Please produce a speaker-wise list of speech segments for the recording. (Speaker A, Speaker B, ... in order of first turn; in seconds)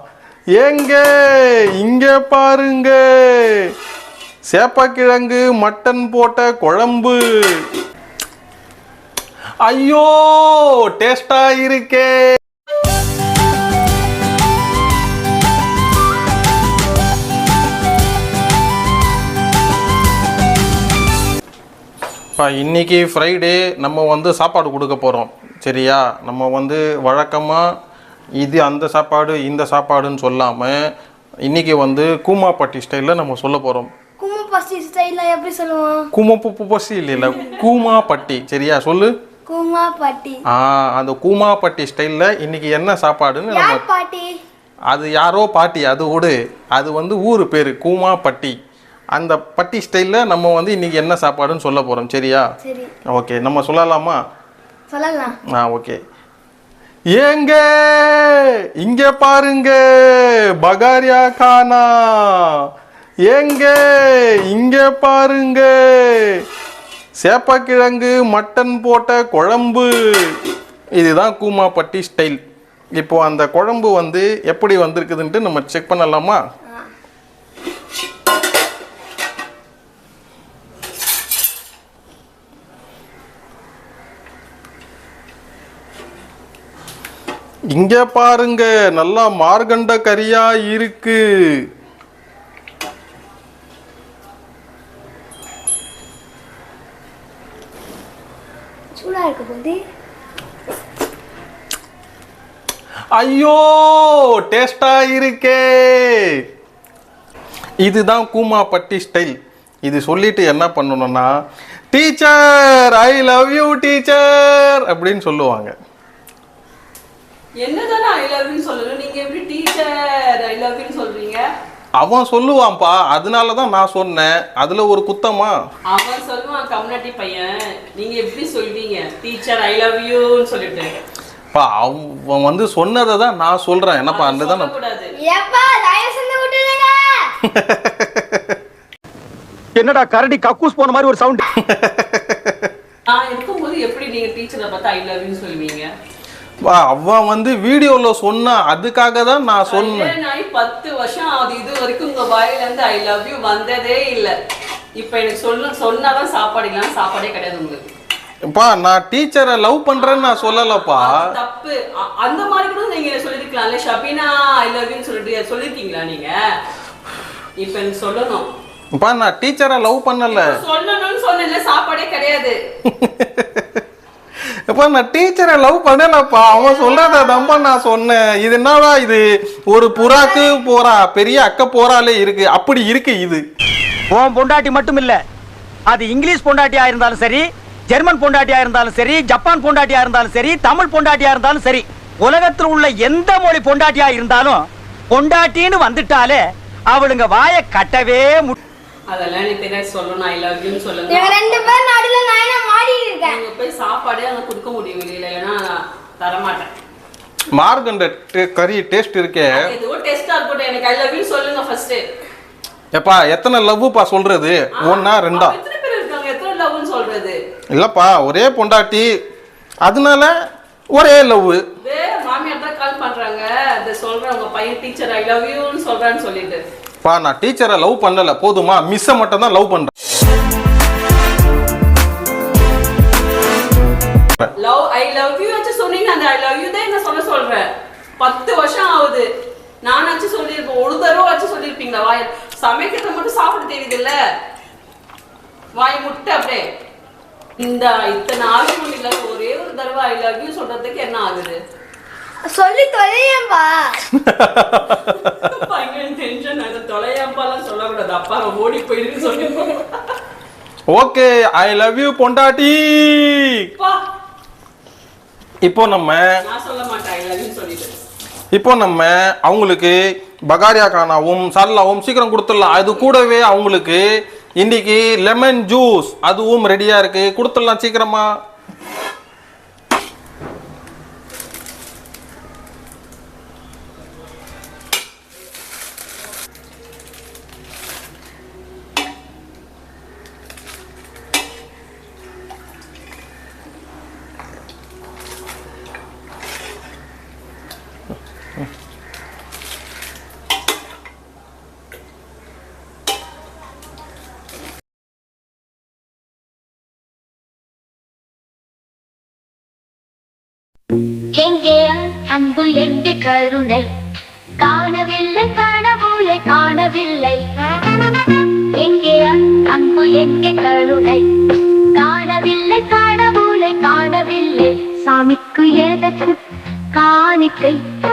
Speaker A: 0.6-3.6, 4.5-7.6, 9.6-12.1, 22.4-27.6, 28.4-30.8, 31.4-33.9, 36.1-39.1, 40.5-43.8, 44.9-48.5, 49.1-52.4, 53.1-54.2, 55.5-56.0, 57.2-62.4, 63.3-66.4, 67.2-70.4, 71.0-72.4, 73.0-76.4, 87.7-91.2, 103.2-106.2, 107.8-109.3, 109.9-111.3, 111.9-115.7, 122.0-125.5, 131.5-134.7, 137.4-138.5, 141.6-142.7, 146.7-150.1, 158.5-161.1, 168.9-170.5, 172.9-173.8, 174.7-183.4, 207.5-209.6, 212.9-215.5, 217.8-219.1, 219.8-220.3, 220.9-221.6, 227.0-229.9, 254.1-255.4, 260.9-263.7, 265.6-266.2, 268.5-274.0, 274.6-278.2
Speaker B: 34.2-36.1, 39.5-40.4, 43.5-44.4, 52.6-52.9, 54.9-55.3, 99.0-99.8, 135.2-137.2, 201.1-203.4, 252.4-254.0
Speaker C: 37.2-37.9, 117.6-121.4, 125.9-130.9, 134.1-135.1, 143.1-145.9, 149.7-154.3, 155.0-157.8, 159.9-166.3, 167.6-168.5, 170.3-172.6, 199.1-201.8, 203.2-206.7, 209.5-212.0, 214.8-217.4, 221.8-226.6, 234.6-237.7, 238.2-239.2, 239.8-244.1, 245.8-246.6, 247.6-251.6, 254.9-260.0, 266.4-268.0
Speaker D: 139.8-141.4, 184.1-185.2, 185.9-198.5
Speaker E: 311.2-313.9, 314.6-326.4, 326.9-327.8